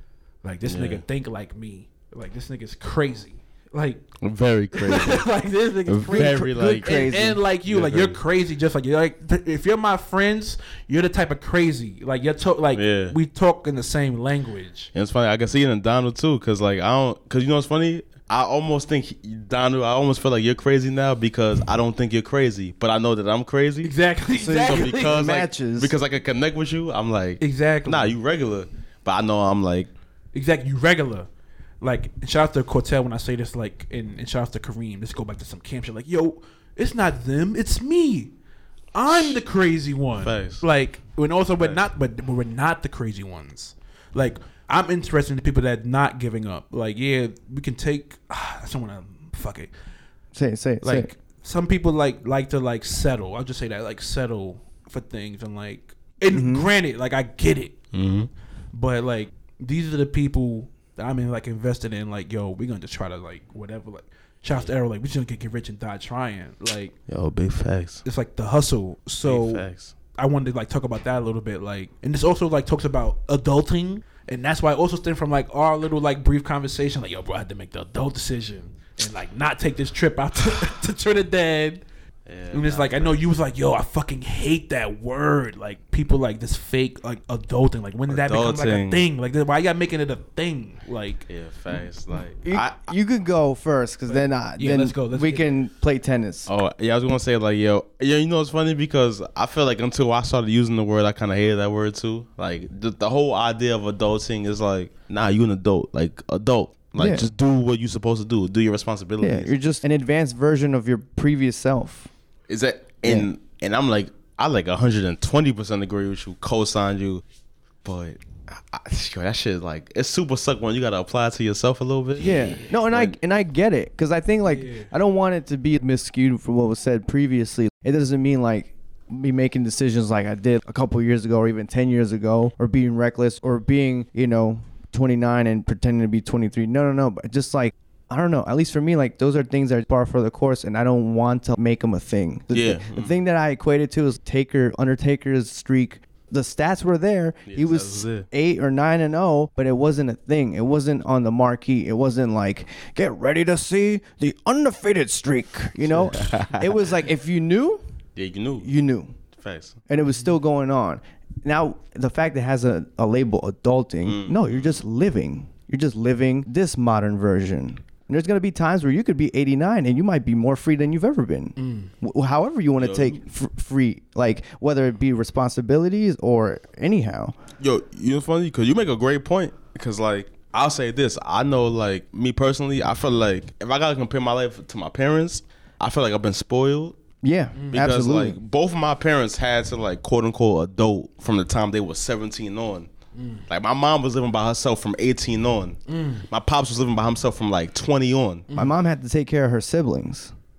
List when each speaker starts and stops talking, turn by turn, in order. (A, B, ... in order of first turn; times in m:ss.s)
0:00.4-0:04.1 A
0:00.6-0:01.0 B
0:04.2-0:05.2 B
0:04.7-0:14.9 A
0:05.8-0:07.1 B
0:06.1-0:07.4 C
0:07.6-0:08.2 B
0:12.7-0:13.2 B
0:14.9-0:23.9 B
0:23.8-0:25.2 A
0:24.4-0:25.9 C
0:24.6-0:29.9 B
0:27.4-0:28.1 A
0:30.3-0:31.3 A
0:31.8-0:38.3 A
0:38.9-0:49.7 A
0:39.1-0:39.4 B
0:40.2-0:40.6 B
0:41.6-0:41.8 B
0:50.3-0:51.1 C
0:50.8-0:57.8 A
0:56.3-0:56.7 C
0:57.9-0:58.3 B
0:58.7-1:06.9 A
1:07.1-1:08.0 B
1:08.0-1:21.8 A
1:09.2-1:09.9 B
1:22.3-1:23.3 B
1:22.5-1:31.3 A
1:28.1-1:29.0 B
1:31.3-1:32.8 B
1:32.4-1:36.5 C
1:34.1-1:35.4 A
1:36.5-1:49.5 B
1:47.0-1:47.2 C
1:49.2-1:52.1 C
1:52.5-1:57.2 B
1:53.0-1:53.3 C
1:57.8-2:03.1 B
2:02.2-2:02.7 A
2:02.2-2:37.8 C
2:04.5-2:04.9 A
2:22.5-2:23.2 B
2:27.4-2:28.3 B
2:35.8-2:36.8 B
2:38.2-2:38.7 B
2:38.6-2:39.1 C
2:39.4-2:39.8 B
2:39.9-2:57.4 C
2:44.0-2:44.8 B
2:51.6-2:51.9 A
2:52.8-2:53.2 B
2:57.6-3:07.0 B
3:07.2-3:08.4 C
3:07.6-3:07.8 A
3:07.7-3:12.9 B
3:13.1-3:13.4 A
3:13.5-3:15.8 B
3:15.9-3:16.3 A
3:16.3-3:18.5 B
3:18.5-3:18.7 A
3:18.6-3:20.3 C